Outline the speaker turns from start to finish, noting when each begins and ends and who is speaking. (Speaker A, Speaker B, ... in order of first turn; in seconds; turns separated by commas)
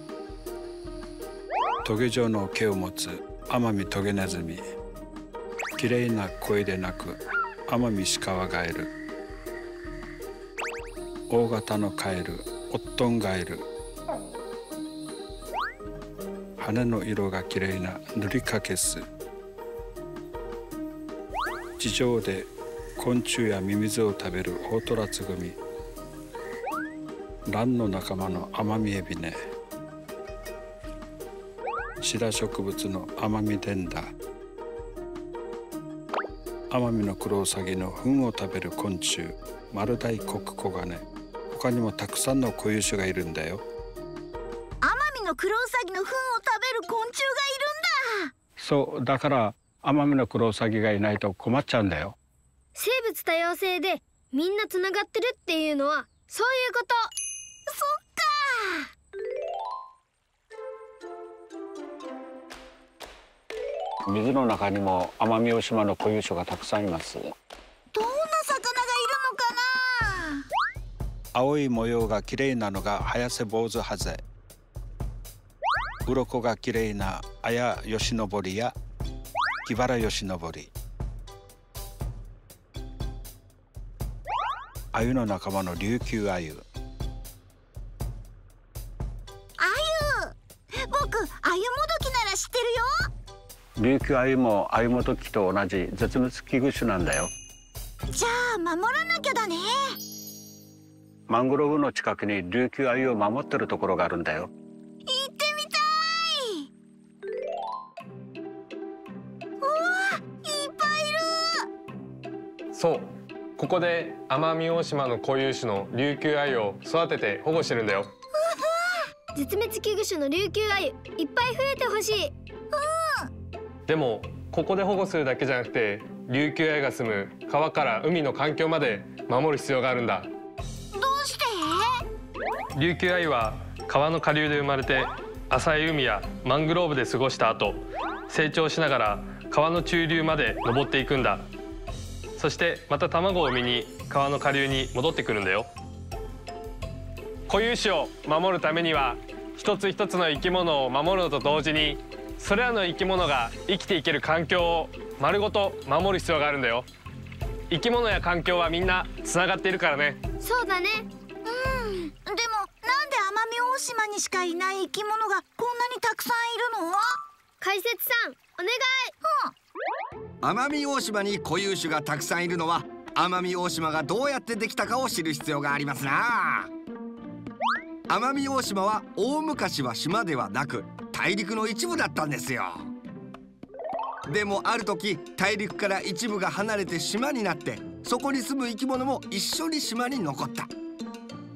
Speaker A: 1.8-4.6, Speaker A: 5.8-8.9, Speaker A: 11.3-13.7, Speaker A: 16.6-19.1, Speaker A: 21.8-25.6, Speaker A: 27.5-29.4, Speaker A: 32.0-34.1, Speaker A: 36.7-43.6, Speaker B: 44.8-48.3, Speaker A: 48.6-52.2, Speaker C: 52.8-57.1, Speaker B: 57.7-58.9, Speaker A: 64.1-67.3, Speaker B: 67.9-70.4, Speaker A: 71.3-74.2, Speaker A: 76.1-78.8, Speaker A: 79.7-80.7, Speaker A: 84.9-86.7, Speaker B: 89.6-93.1, Speaker A: 93.8-97.3, Speaker B: 98.1-99.9, Speaker A: 101.3-104.5, Speaker B: 105.1-106.7, Speaker B: 109.6-111.7, Speaker D: 112.7-118.1, Speaker B: 118.4-119.1, Speaker C: 119.3-122.3, Speaker B: 122.7-123.3, Speaker D: 123.9-130.3, Speaker B: 130.9-132.0, Speaker D: 132.8-141.4, Speaker D: 142.4-145.7, Speaker D: 147.5-156.9, Speaker D: 157.7-160.2, Speaker C: 160.4-161.1, Speaker B: 161.4-167.2, Speaker C: 167.6-169.1, Speaker B: 169.2-169.5, Speaker E: 170.4-176.7, Speaker E: 178.1-182.9, Speaker E: 184.3-190.7